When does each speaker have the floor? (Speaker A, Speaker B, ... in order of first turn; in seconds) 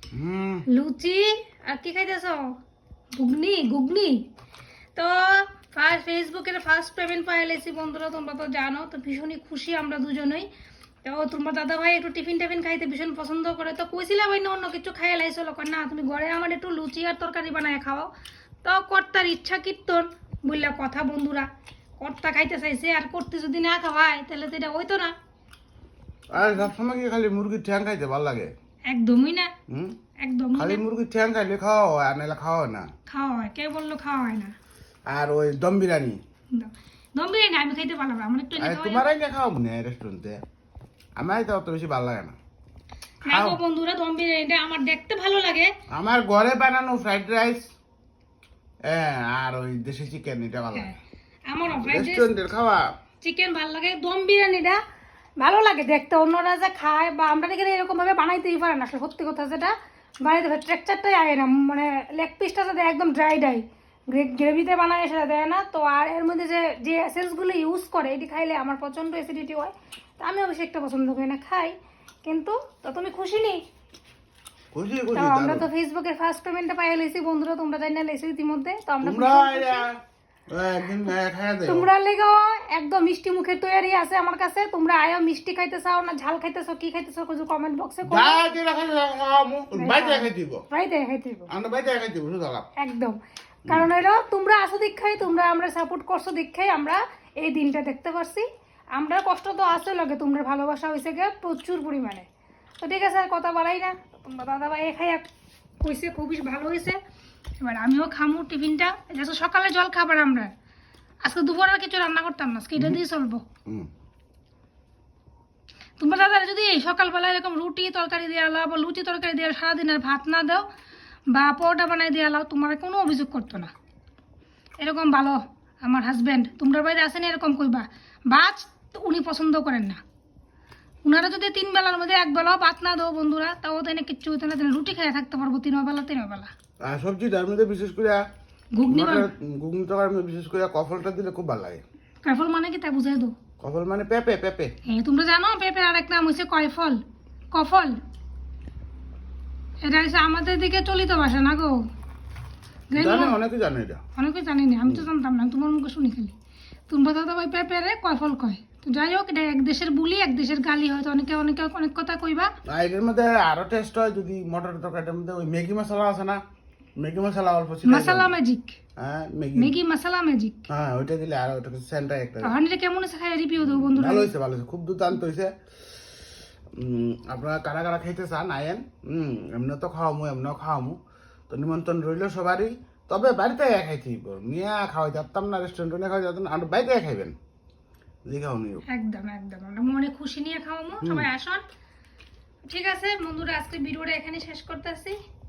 Speaker A: 0.1-0.7, 26.3-28.5, 29.7-30.0, 30.6-32.9, 35.1-36.2, 38.6-40.4, 41.2-42.4, 43.3-43.6, 45.9-47.7, 48.9-50.9, 51.7-52.9, 74.7-75.7, 79.0-81.9, 88.1-90.7, 91.5-92.7, 136.8-138.2, 138.9-141.8, 143.6-144.7, 152.9-154.0, 162.7-166.4, 167.0-168.3, 169.0-169.8, 170.7-172.6, 173.6-175.5, 176.7-181.0, 181.5-187.3, 188.3-188.8, 191.0-191.3
Speaker B: 0.7-2.5, 3.2-4.3, 5.0-10.5, 11.0-18.1, 18.6-21.5, 22.0-25.1, 28.9-29.5, 30.2-30.8, 33.1-34.5, 36.5-39.1, 43.2-45.7, 51.5-52.3, 53.2-54.8, 55.4-73.6, 75.1-79.9, 81.7-88.5, 89.8-91.5, 92.8-102.3, 102.8-105.2, 105.8-107.0, 107.6-110.5, 111.2-113.4, 116.0-120.7, 121.3-123.7, 124.8-130.0, 131.1-136.5, 138.8-139.3, 142.2-143.3, 144.9-147.0, 147.5-148.0, 149.8-151.8, 152.9-153.4, 154.2-156.3, 156.9-162.5, 167.8-168.8, 169.6-170.7, 172.4-174.3, 188.9-191.6, 192.7-195.2